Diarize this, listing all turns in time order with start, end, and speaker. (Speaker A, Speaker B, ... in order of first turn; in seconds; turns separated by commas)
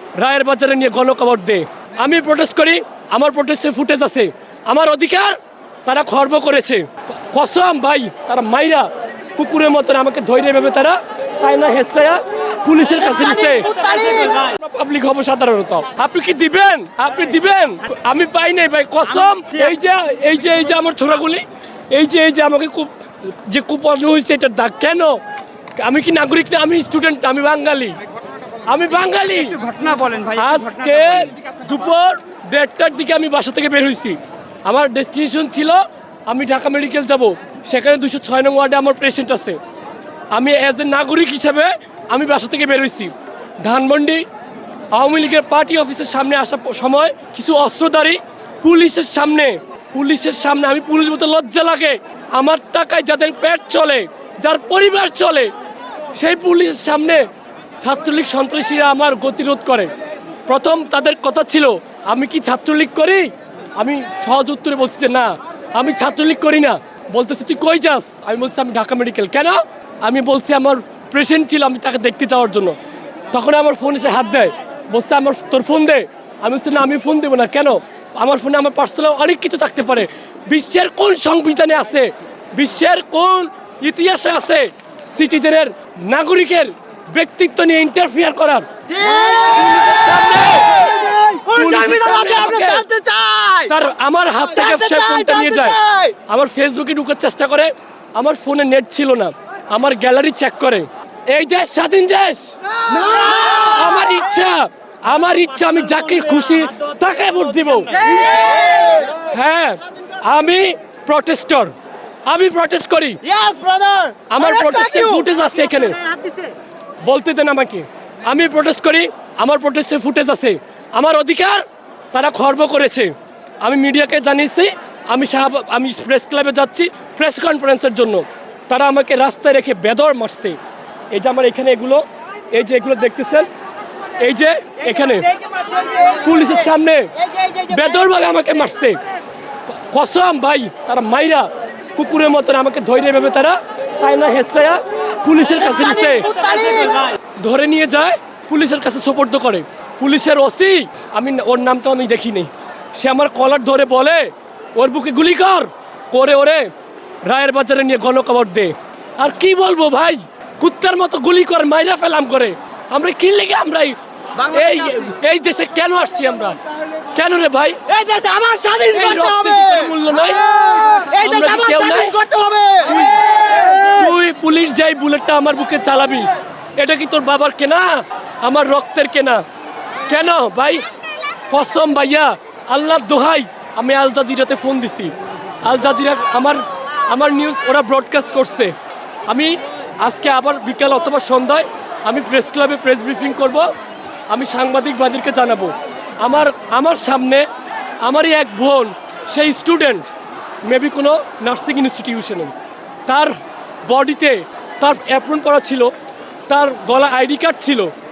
Speaker A: 0.1-25.2, Speaker B: 13.1-14.5, Speaker A: 25.8-28.0, Speaker A: 28.6-29.6, Speaker B: 29.5-31.2, Speaker A: 30.3-39.6, Speaker A: 40.3-44.2, Speaker A: 44.9-55.5, Speaker A: 56.1-57.3, Speaker A: 57.8-59.9, Speaker A: 60.5-72.8, Speaker A: 73.3-90.8, Speaker B: 88.9-89.9, Speaker B: 90.5-93.7, Speaker A: 91.5-92.8, Speaker A: 93.6-108.1, Speaker B: 94.6-96.2, Speaker B: 102.8-103.9, Speaker B: 108.0-109.2, Speaker A: 109.1-111.7, Speaker A: 112.2-113.2, Speaker B: 113.2-115.2, Speaker A: 114.3-116.4, Speaker A: 117.0-130.6, Speaker A: 131.1-133.5, Speaker A: 134.1-135.4, Speaker B: 135.2-136.3, Speaker A: 135.9-139.0, Speaker B: 137.2-137.8, Speaker A: 139.7-146.4, Speaker B: 145.7-147.1, Speaker A: 147.3-156.7, Speaker A: 157.2-167.8, Speaker B: 167.9-169.9, Speaker A: 168.9-170.4, Speaker B: 170.6-173.6, Speaker A: 171.1-172.2, Speaker A: 172.9-179.4, Speaker A: 180.1-180.8, Speaker A: 181.5-188.8, Speaker A: 189.3-193.7, Speaker A: 194.3-197.5, Speaker A: 198.0-200.1, Speaker A: 200.6-202.5, Speaker A: 203.1-205.9, Speaker A: 206.5-207.9